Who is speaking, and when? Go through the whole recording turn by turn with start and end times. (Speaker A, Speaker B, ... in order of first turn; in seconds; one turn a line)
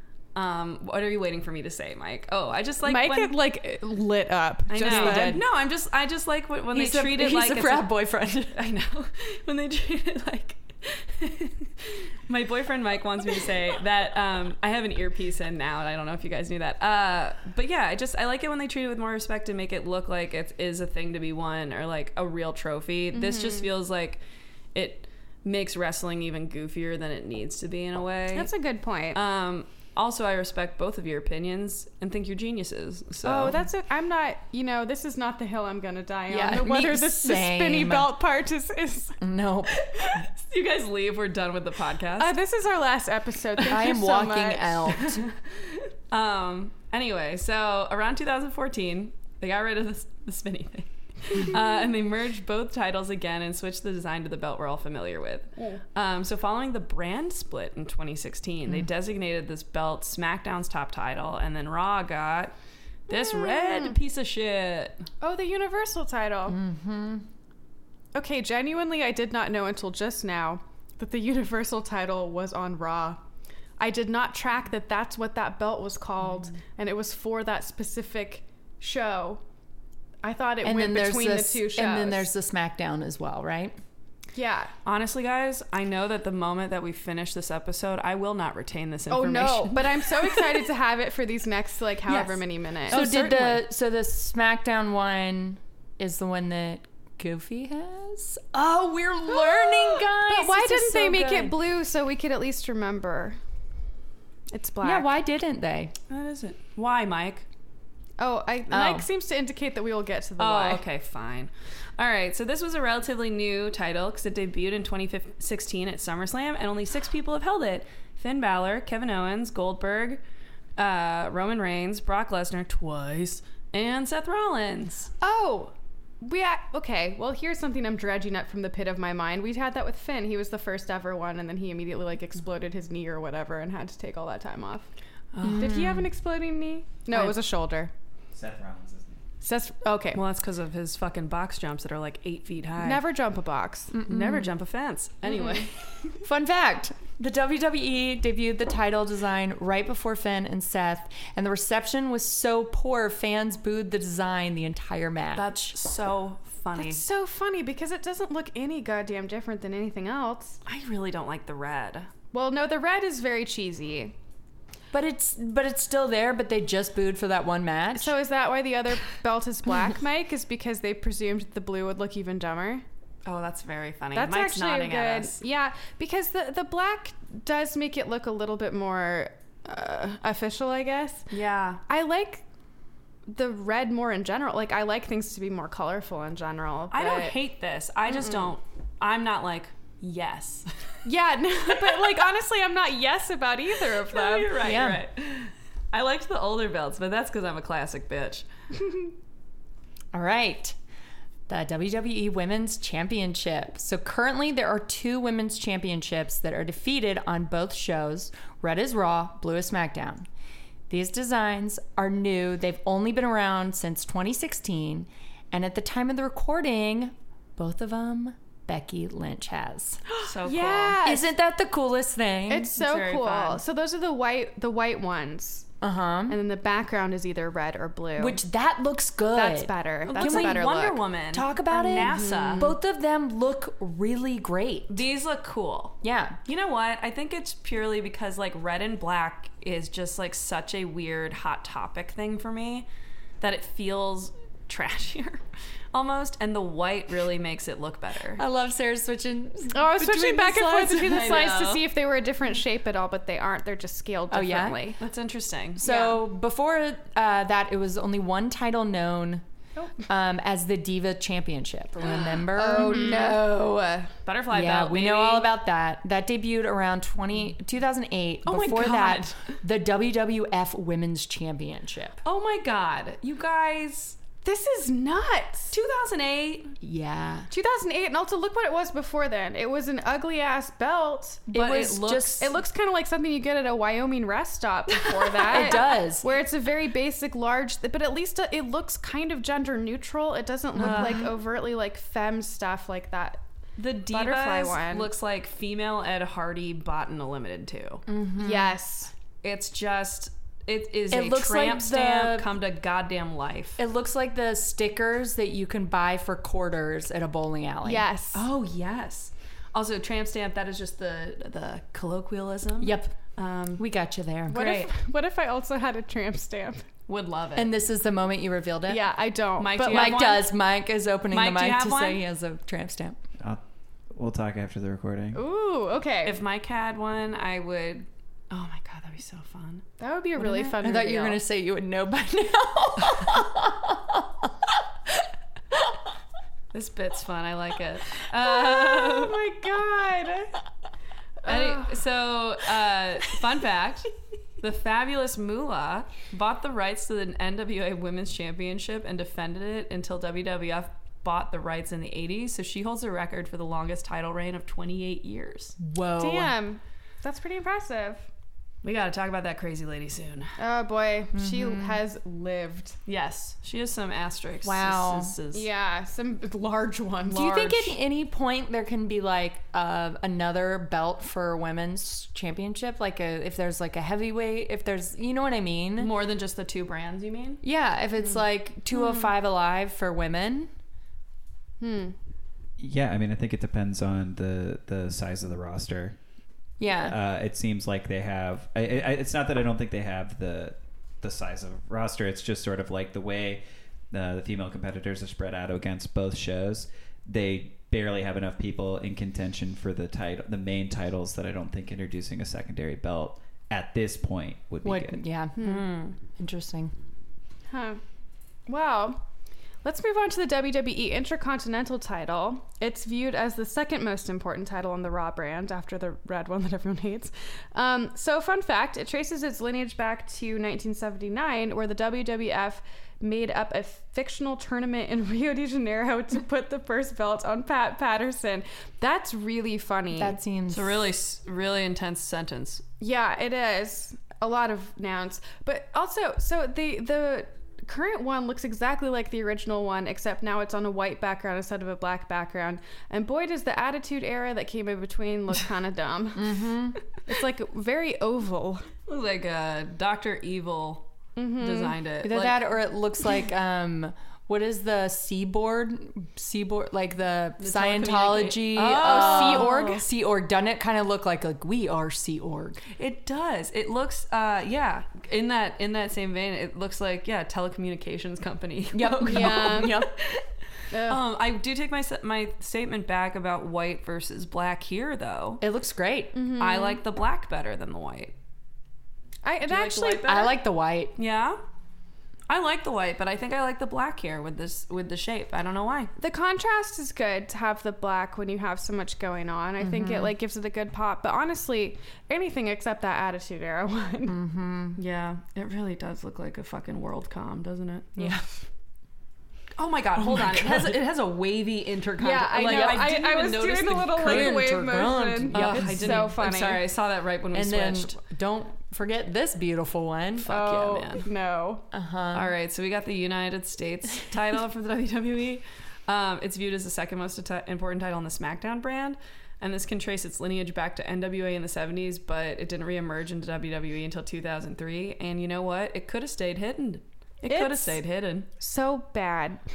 Speaker A: 0.3-3.3
Speaker B: 2.8-5.4
Speaker A: 4.7-8.0
Speaker C: 4.8-5.4
Speaker C: 6.7-8.6
Speaker A: 8.5-24.2
Speaker B: 23.1-23.7
Speaker A: 24.7-28.5
Speaker B: 28.3-29.2
Speaker A: 29.1-33.6
Speaker B: 33.2-39.2
Speaker C: 36.3-38.1
Speaker C: 39.2-40.2
Speaker A: 39.7-42.3
Speaker B: 42.2-44.9
Speaker C: 43.7-45.2
Speaker A: 45.0-62.5
Speaker A: 63.1-65.0
Speaker B: 63.1-63.9
Speaker B: 65.2-66.6
Speaker C: 66.5-67.2
Speaker B: 68.1-73.2
Speaker B: 73.8-79.4
Speaker B: 80.2-82.3
Speaker C: 80.6-83.8
Speaker B: 84.3-84.7
Speaker A: 84.8-90.4
Speaker B: 89.1-93.1
Speaker C: 92.1-101.5
Speaker A: 92.9-93.6
Speaker B: 99.3-103.4
Speaker B: 104.5-105.2
Speaker C: 104.8-105.9
Speaker A: 106.1-107.5
Speaker B: 108.2-110.8
Speaker C: 108.7-109.1
Speaker A: 110.4-120.2
Speaker A: 120.8-125.1
Speaker B: 125.2-134.9
Speaker A: 135.3-135.8
Speaker C: 135.4-136.1
Speaker B: 135.6-137.9
Speaker D: 138.3-139.2
Speaker B: 139.4-140.2
Speaker A: 140.1-143.0
Speaker B: 142.8-143.9
Speaker C: 143.9-144.5
Speaker A: 144.0-145.7
Speaker C: 146.2-155.7
Speaker A: 155.3-157.0
Speaker B: 156.8-160.6
Speaker A: 160.7-162.1
Speaker B: 162.3-164.1
Speaker C: 164.9-168.1
Speaker B: 167.9-172.8
Speaker A: 173.2-175.4
Speaker B: 174.1-181.3
Speaker A: 181.3-181.8
Speaker B: 181.9-182.4
Speaker B: 183.3-187.4
Speaker A: 186.9-190.7
Speaker B: 188.1-188.5
Speaker B: 191.0-194.6
Speaker A: 191.8-192.1
Speaker A: 194.0-198.4
Speaker C: 194.6-195.0
Speaker C: 200.1-200.8
Speaker C: 201.5-210.2
Speaker C: 210.9-220.0
Speaker B: 220.1-221.3
Speaker A: 220.2-221.0
Speaker C: 221.0-222.7
Speaker B: 222.5-225.7
Speaker A: 222.8-223.6
Speaker C: 225.8-226.4
Speaker B: 226.3-228.4
Speaker C: 228.2-230.7
Speaker B: 229.3-231.0
Speaker A: 230.1-232.7
Speaker C: 231.3-235.0
Speaker B: 231.7-232.7
Speaker A: 234.9-242.9
Speaker C: 236.0-236.4
Speaker A: 243.4-248.4
Speaker C: 248.4-251.4
Speaker B: 249.7-255.0
Speaker A: 250.6-251.8
Speaker C: 254.3-254.8
Speaker A: 255.0-255.8
Speaker C: 255.8-259.4
Speaker B: 255.8-256.2
Speaker C: 260.1-263.4
Speaker B: 262.2-264.1
Speaker A: 262.7-263.5
Speaker A: 264.2-265.5
Speaker C: 264.5-272.2
Speaker A: 268.4-269.4
Speaker A: 272.2-274.2
Speaker B: 274.4-275.7
Speaker A: 275.7-276.7
Speaker C: 276.8-277.5
Speaker B: 277.5-281.5
Speaker C: 281.5-282.5
Speaker A: 281.5-282.5
Speaker B: 282.4-293.4
Speaker A: 285.2-285.8
Speaker C: 285.5-286.2
Speaker C: 290.8-291.3
Speaker A: 290.8-291.2
Speaker A: 293.8-298.0
Speaker B: 294.1-295.1
Speaker C: 298.1-298.8
Speaker B: 298.4-299.1
Speaker A: 299.4-303.8
Speaker C: 301.1-302.5
Speaker C: 303.8-308.0
Speaker B: 307.8-308.4
Speaker A: 308.3-313.8
Speaker C: 312.8-313.1
Speaker C: 313.8-314.8
Speaker B: 314.5-316.8
Speaker A: 314.5-314.8
Speaker A: 317.1-317.7
Speaker C: 317.6-319.0
Speaker B: 318.9-320.4
Speaker A: 319.6-320.5
Speaker C: 319.8-323.2
Speaker A: 321.3-322.2
Speaker D: 324.1-325.4
Speaker B: 325.3-326.4
Speaker A: 326.2-329.8
Speaker B: 330.0-331.4
Speaker C: 330.4-334.7
Speaker A: 336.7-339.5
Speaker B: 338.4-340.5
Speaker B: 341.4-342.0
Speaker A: 341.4-355.8
Speaker C: 355.8-356.5
Speaker B: 356.2-358.3
Speaker A: 358.8-360.5
Speaker B: 360.6-363.0
Speaker C: 361.3-362.0
Speaker A: 363.1-365.7
Speaker C: 364.6-365.3
Speaker B: 365.5-367.9
Speaker C: 367.3-376.1
Speaker A: 376.0-377.6
Speaker C: 377.6-380.7
Speaker B: 379.0-379.3
Speaker B: 381.8-382.1
Speaker D: 382.8-386.2
Speaker C: 386.8-387.2
Speaker D: 387.0-405.2
Speaker C: 404.8-405.8
Speaker B: 405.6-405.9
Speaker A: 405.6-406.1
Speaker C: 406.3-406.9
Speaker B: 407.7-408.0
Speaker B: 408.7-409.2
Speaker B: 409.8-430.4
Speaker C: 430.1-431.1
Speaker A: 430.7-432.8
Speaker B: 433.0-448.9
Speaker C: 446.3-447.0
Speaker A: 449.1-452.6
Speaker B: 451.4-451.9
Speaker C: 452.2-462.8
Speaker A: 457.6-460.0
Speaker B: 458.8-460.1
Speaker A: 462.9-470.4
Speaker C: 468.9-470.1
Speaker B: 469.2-470.1
Speaker B: 470.9-471.2
Speaker A: 471.1-475.6
Speaker C: 475.6-476.4
Speaker B: 476.3-477.0
Speaker A: 476.6-478.3
Speaker B: 479.4-480.5
Speaker A: 479.6-480.6
Speaker C: 480.2-481.1
Speaker A: 481.1-481.6
Speaker A: 482.5-486.1
Speaker B: 486.2-494.4
Speaker C: 489.8-490.3
Speaker C: 494.2-495.0
Speaker A: 495.0-498.3
Speaker C: 498.2-498.4
Speaker A: 499.8-504.6
Speaker C: 500.2-501.0
Speaker B: 502.2-506.8
Speaker C: 502.5-503.1
Speaker C: 504.2-506.4
Speaker A: 505.5-508.1
Speaker C: 507.5-510.5
Speaker A: 510.4-511.2
Speaker B: 510.5-511.8
Speaker C: 511.9-512.5
Speaker A: 512.3-528.5
Speaker B: 527.5-528.0
Speaker B: 528.6-529.6